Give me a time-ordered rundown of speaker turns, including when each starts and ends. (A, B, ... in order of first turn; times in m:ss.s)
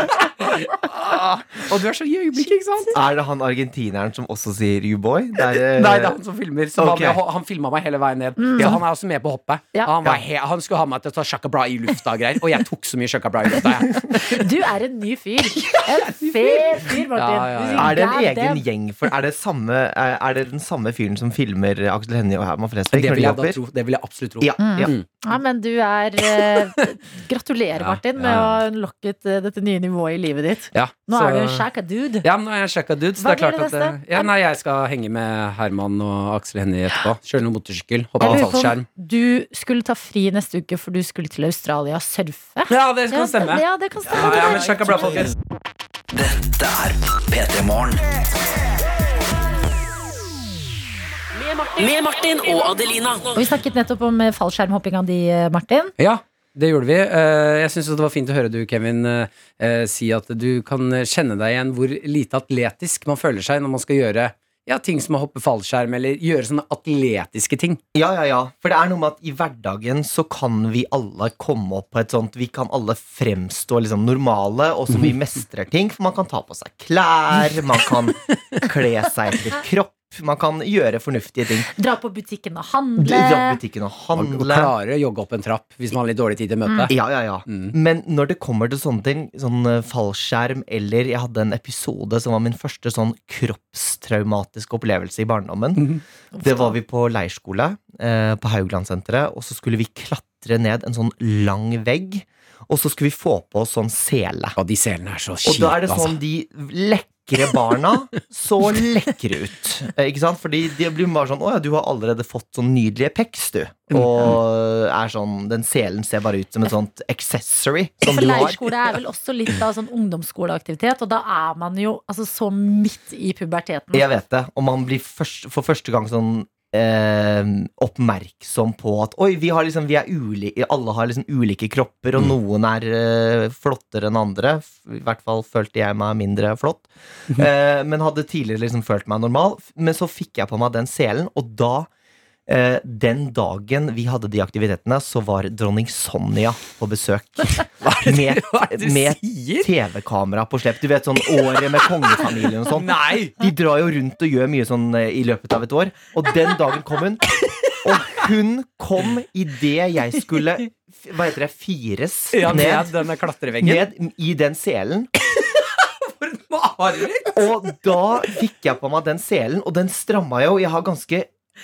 0:00.2-0:02.9 A
0:02.4-0:02.9 B
0:02.9-0:06.2 C
0:05.5-0:14.5 A
0:06.8-0:07.2 C
0:08.4-0:08.8 B
0:14.2-0:18.6 B
0:17.0-0:17.9 A
0:17.8-0:23.6 C
0:22.9-0:25.1 A
0:24.4-0:24.9 C
0:24.6-0:32.3 B
0:27.8-0:28.6 A
0:30.7-0:31.7 A
0:32.2-0:38.9 A
0:33.2-0:34.3 B
0:38.2-0:45.3 B
0:38.2-0:38.5 C
0:42.7-0:45.3 A
0:46.1-0:48.1 D
0:51.4-0:53.4 E
0:53.4-0:55.9 B
0:56.0-1:07.8 A
1:07.9-1:21.7 C
1:21.8-1:23.6 B
1:23.0-1:24.7 C
1:24.2-1:26.9 A
1:26.9-1:35.9 C
1:27.5-1:27.7 A
1:36.3-1:36.8 B
1:36.4-1:44.6 C
1:44.6-1:46.2 A
1:45.4-1:58.6 C
1:53.9-1:54.4 A
1:58.0-2:04.0 B
2:03.9-2:21.9 C
2:22.5-2:42.9 C
2:27.8-2:29.7 A
2:32.7-2:33.4 A
2:42.3-2:43.9 A
2:43.6-2:45.1 C
2:45.4-2:47.4 A
2:47.4-2:51.3 C